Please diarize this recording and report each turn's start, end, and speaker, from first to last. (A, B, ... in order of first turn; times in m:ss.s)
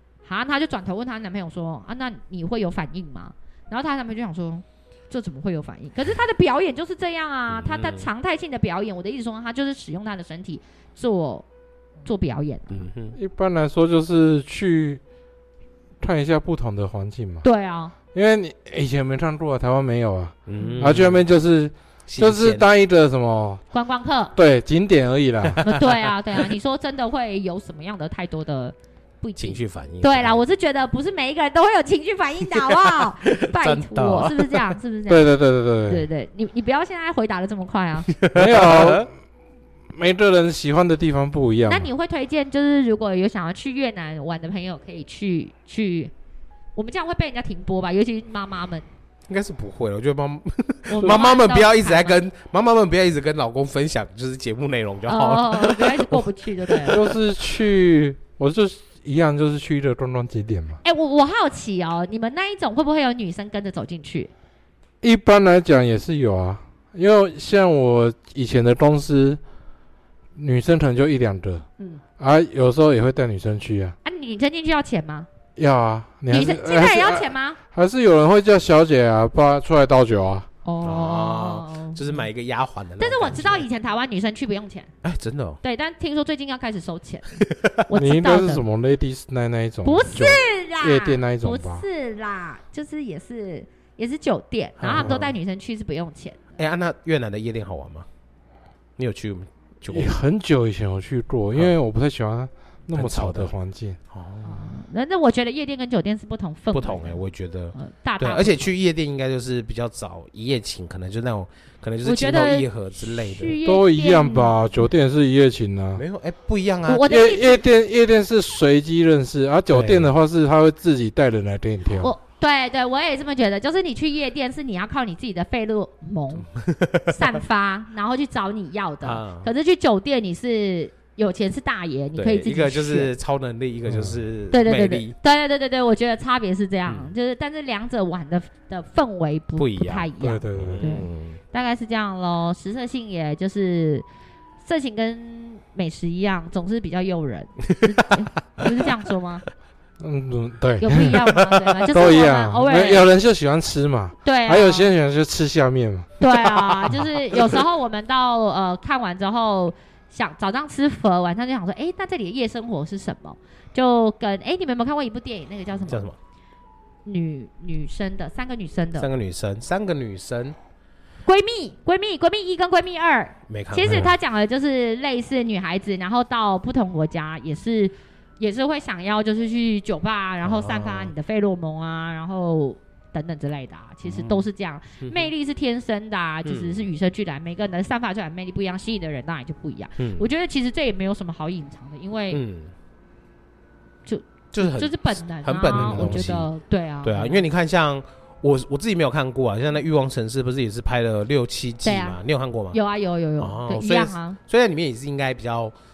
0:00.2-0:11.4 A
0:07.5-0:08.1 B
0:12.0-0:12.9 A
0:12.7-0:13.2 B
0:13.1-0:15.0 C
0:16.0-0:17.4 C
0:17.4-0:17.9 A
0:18.1-0:23.6 C
0:20.5-0:21.2 B
0:20.6-0:20.9 A
0:22.1-0:22.6 B
0:23.7-0:24.4 A
0:24.4-0:25.6 C
0:25.5-0:26.5 B
0:25.6-0:35.3 A
0:29.4-0:30.4 B
0:32.7-0:34.7 B
0:35.1-0:36.1 C
0:35.8-0:38.1 A
0:38.1-0:39.1 B
0:38.3-0:39.1 C
0:39.9-0:41.9 C
0:41.7-0:46.1 A
0:46.8-0:48.8 A
0:49.3-0:57.1 B
0:50.9-0:52.2 A
0:55.1-0:57.0 A
0:56.9-1:00.8 C
1:00.8-1:04.3 A
1:05.0-1:09.4 C
1:10.3-1:11.6 C
1:12.2-1:14.0 C
1:14.0-1:15.3 A
1:15.6-1:20.5 C
1:16.3-1:17.6 A
1:20.6-1:22.2 A
1:20.8-1:23.6 B
1:23.0-1:24.9 A
1:25.0-1:25.6 B
1:25.6-1:28.6 A
1:27.4-1:27.8 B
1:28.0-1:31.8 C
1:29.8-1:36.6 A
1:34.8-1:35.3 B
1:36.6-1:38.1 B
1:39.0-1:40.2 B
1:39.9-1:44.0 C
1:42.9-1:43.5 B
1:44.1-1:44.7 B
1:44.4-1:47.2 A
1:46.7-1:53.6 B
1:47.7-1:48.7 A
1:52.0-1:54.6 A
1:53.6-1:56.0 C
1:56.0-1:57.1 B
1:56.9-1:57.6 A
1:57.1-2:02.1 C
1:59.7-2:00.1 B
2:01.9-2:06.5 A
2:06.4-2:07.4 B
2:07.1-2:13.1 A
2:09.0-2:09.5 B
2:12.2-2:15.2 B
2:13.9-2:14.2 C
2:14.5-2:24.0 A
2:19.6-2:21.4 B
2:20.2-2:21.0 C
2:24.6-2:29.4 A
2:27.6-2:28.1 B
2:30.0-2:31.2 C
2:30.8-2:33.0 A
2:31.4-2:31.8 B
2:31.9-2:36.1 C
2:34.2-2:34.9 A
2:36.2-2:46.1 A
2:36.4-2:37.5 B
2:45.8-2:46.2 B
2:47.0-2:49.1 A
2:49.0-2:50.6 B
2:51.2-3:12.4 A
2:53.5-2:54.1 B
2:53.9-2:54.1 C
3:00.4-3:01.1 B
3:04.0-3:04.5 B
3:05.0-3:05.3 B
3:06.4-3:06.9 B
3:10.0-3:10.2 B
3:12.3-3:12.7 B
3:14.0-3:17.4 A
3:14.5-3:16.5 B
3:15.7-3:16.4 C
3:17.0-3:22.8 B
3:21.8-3:22.2 A
3:22.7-3:24.4 A
3:23.4-3:25.7 B